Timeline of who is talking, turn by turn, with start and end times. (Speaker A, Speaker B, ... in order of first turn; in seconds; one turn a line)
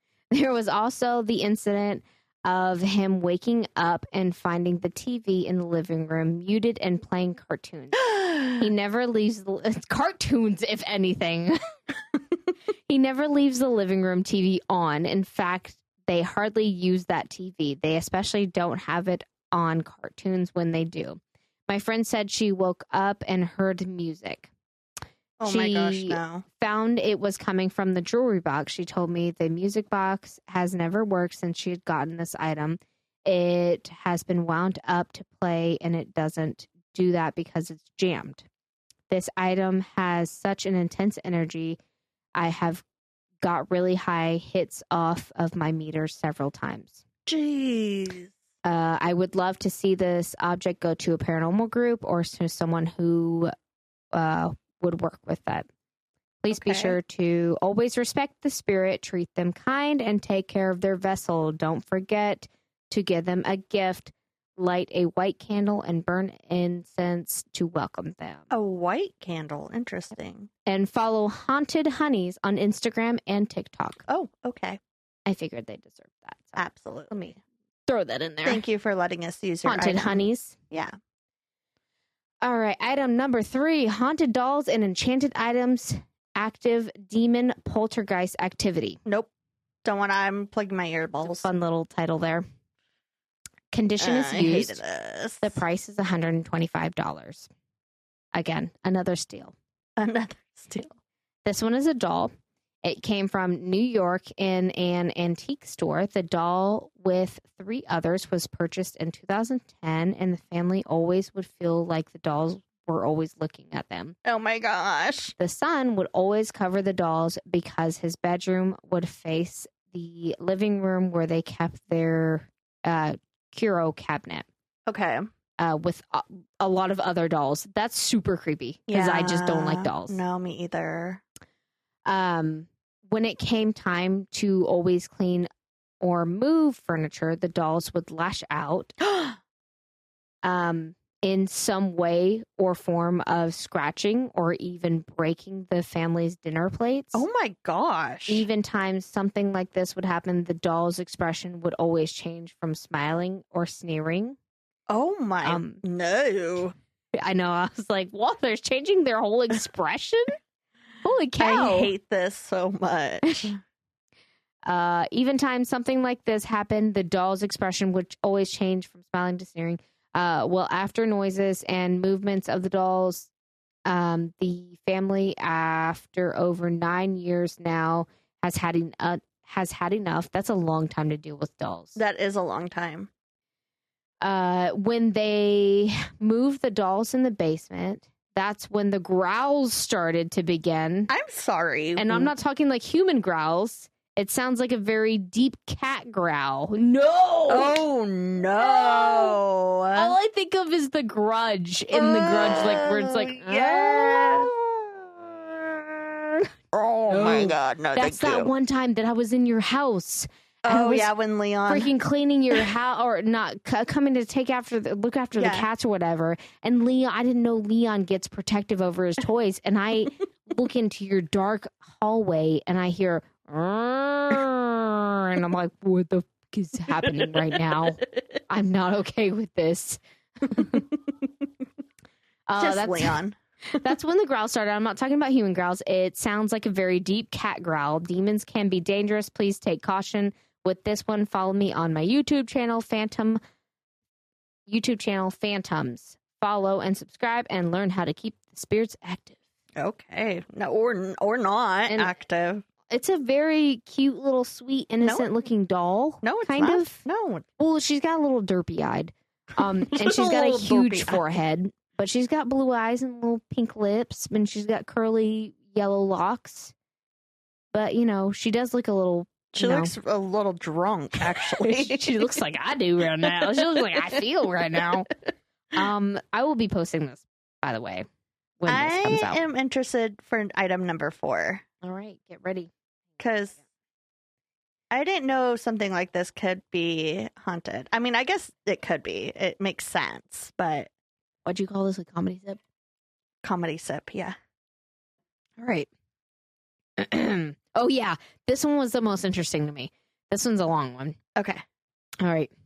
Speaker A: 0.3-11.6
Speaker B: 8.0-8.7
Speaker A: 12.9-24.5
Speaker B: 25.4-26.4
Speaker A: 25.4-38.5
Speaker A: 39.1-41.8
Speaker A: 42.3-42.8
Speaker A: 43.4-47.0
Speaker B: 47.2-48.3
Speaker A: 48.6-53.5
Speaker A: 54.1-55.7
Speaker A: 56.4-68.5
Speaker B: 56.5-57.0
Speaker B: 68.5-70.5
Speaker A: 70.7-74.0
Speaker B: 74.1-74.8
Speaker A: 75.2-77.3
Speaker B: 76.5-77.3
Speaker A: 77.9-78.6
Speaker B: 78.4-80.9
Speaker A: 79.6-80.5
Speaker A: 82.4-89.0
Speaker B: 89.0-89.3
Speaker B: 89.8-91.5
Speaker A: 91.2-92.4
Speaker A: 93.7-94.8
Speaker B: 94.0-95.6
Speaker A: 95.4-97.5
Speaker A: 98.3-99.5
Speaker B: 100.0-100.9
Speaker A: 101.4-102.3
Speaker A: 102.8-114.2
Speaker B: 114.2-115.3
Speaker A: 115.4-124.5
Speaker B: 124.9-125.2
Speaker A: 125.6-130.2
Speaker B: 128.9-131.2
Speaker A: 132.1-135.5
Speaker A: 136.0-138.9
Speaker B: 139.0-139.4
Speaker A: 140.4-147.2
Speaker B: 147.1-148.4
Speaker A: 148.3-154.4
Speaker B: 154.9-156.7
Speaker A: 155.4-155.8
Speaker A: 157.2-160.3
Speaker A: 161.0-161.9
Speaker B: 161.4-163.6
Speaker A: 163.2-163.5
Speaker A: 164.7-173.3
Speaker A: 173.8-182.0
Speaker B: 181.9-183.1
Speaker A: 184.2-191.1
Speaker B: 191.1-192.3
Speaker A: 192.0-197.8
Speaker B: 197.5-200.1
Speaker A: 198.6-199.4
Speaker A: 199.9-204.5
Speaker B: 201.9-205.4
Speaker B: 206.7-208.5
Speaker A: 207.1-211.1
Speaker B: 210.6-211.9
Speaker A: 211.7-230.8
Speaker B: 215.4-215.7
Speaker B: 227.0-227.6
Speaker A: 232.5-233.2
Speaker B: 232.6-233.4
Speaker A: 233.8-243.4
Speaker A: 244.7-249.4
Speaker B: 249.8-252.6
Speaker A: 252.9-257.0
Speaker B: 256.2-257.4
Speaker A: 257.6-266.7
Speaker B: 259.9-261.2
Speaker A: 267.7-269.9
Speaker B: 269.5-272.4
Speaker A: 271.6-275.1
Speaker B: 273.2-274.2
Speaker A: 275.7-278.1
Speaker A: 278.6-279.4
Speaker B: 278.7-281.6
Speaker A: 281.8-282.7
Speaker B: 283.2-283.6
Speaker B: 284.9-290.9
Speaker A: 291.4-292.6
Speaker B: 293.4-294.4
Speaker A: 295.6-295.9
Speaker A: 297.0-301.2
Speaker B: 301.4-301.6
Speaker A: 302.2-302.5